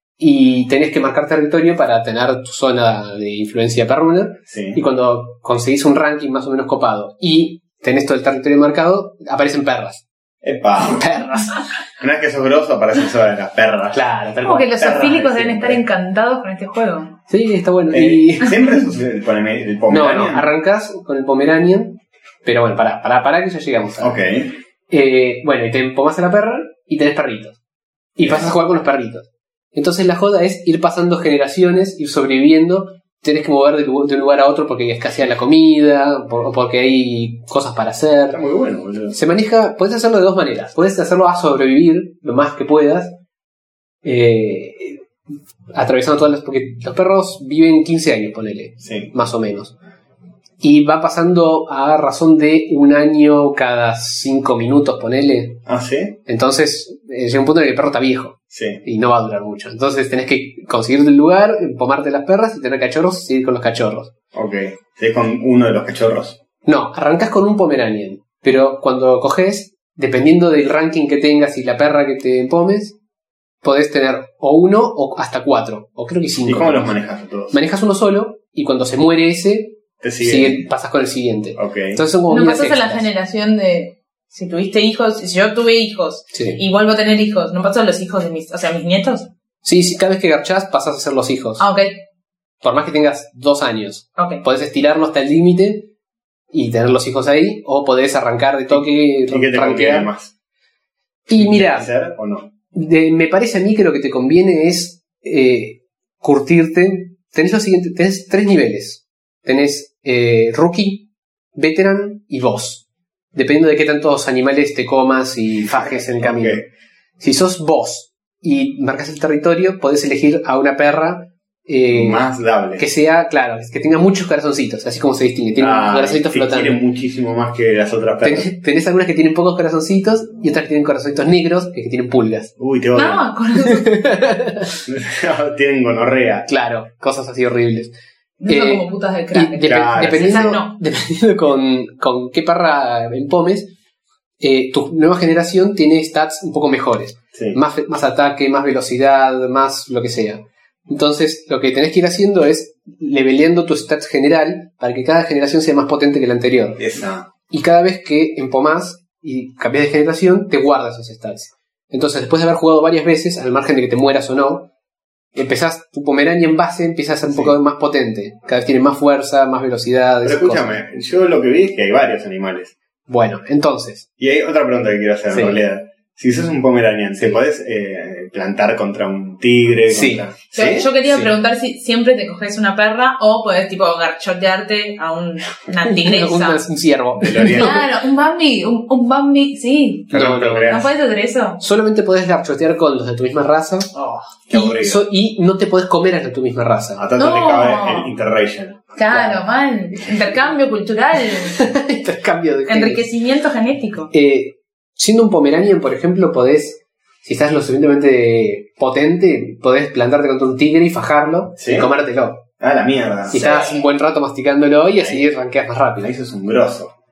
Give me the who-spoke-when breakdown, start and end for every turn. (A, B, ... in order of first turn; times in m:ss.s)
0:00.2-0:10.0 A
0:04.5-0:04.8 B
0:10.4-0:11.1 B
0:10.9-0:11.6 A
0:12.0-0:14.0 B
0:13.9-0:14.8 A
0:14.4-0:17.1 C
0:14.8-0:15.8 B
0:17.3-0:18.6 A
0:17.9-0:20.5 B
0:19.9-0:24.2 A
0:24.0-0:24.5 B
0:24.9-0:27.6 A
0:28.2-0:38.4 A
0:28.2-0:28.5 B
0:38.3-0:39.2 B
0:39.1-0:43.2 A
0:44.0-0:45.0 A
0:45.7-0:49.7 A
0:48.8-0:49.1 B
0:50.6-0:55.6 A
0:55.6-0:56.2 B
0:56.2-1:04.1 A
0:58.5-0:58.8 B
1:04.3-1:06.4 B
1:06.6-1:13.0 A
1:13.6-1:16.9 A
1:16.4-1:17.6 B
1:17.5-1:23.1 A
1:20.0-1:20.7 B
1:21.6-1:22.0 B
1:22.3-1:29.3 C
1:26.3-1:26.6 A
1:29.6-1:31.7 A
1:31.6-1:32.0 C
1:32.6-1:35.9 A
1:34.2-1:34.4 C
1:36.5-1:40.1 A
1:38.7-1:40.3 B
1:41.3-1:41.9 A
1:41.3-1:42.5 B
1:42.7-1:56.6 A
1:55.7-1:56.7 B
1:57.2-2:06.8 A
2:01.9-2:02.8 B
2:05.6-2:08.5 B
2:08.2-2:12.5 A
2:12.6-2:13.3 B
2:12.9-2:14.0 C
2:13.6-2:14.7 A
2:14.8-2:16.5 B
2:16.5-2:17.9 A
2:18.4-2:20.7 C
2:18.5-2:23.7 A
2:19.6-2:20.6 B
2:24.4-2:36.8 A
2:27.3-2:27.6 B
2:36.8-2:37.3 B
2:37.5-2:44.7 A
2:45.3-2:50.7 A
2:50.2-2:52.7 B
2:53.1-2:54.0 A
2:54.2-3:00.9 B
2:55.3-2:55.6 A
2:59.9-3:00.3 A
3:00.5-3:06.6 C
3:01.0-3:01.3 A
3:05.8-3:07.8 A
3:07.2-3:07.9 B
3:07.5-3:11.6 C
3:10.1-3:10.9 B
3:10.1-3:10.8 A
3:11.6-3:13.9 A
3:14.0-3:14.2 C
3:14.5-3:15.0 B
3:14.5-3:17.0 A
3:17.0-3:19.4 B
3:17.2-3:18.1 C
3:19.0-3:21.6 C
3:19.1-3:19.4 A
3:21.5-3:23.0 A
3:22.7-3:24.1 C
3:24.1-3:32.4 A
3:31.6-3:31.9 B
3:32.6-3:33.7 B
3:33.3-3:36.1 A
3:33.4-3:33.7 C
3:35.0-3:35.2 B
3:36.0-3:36.9 B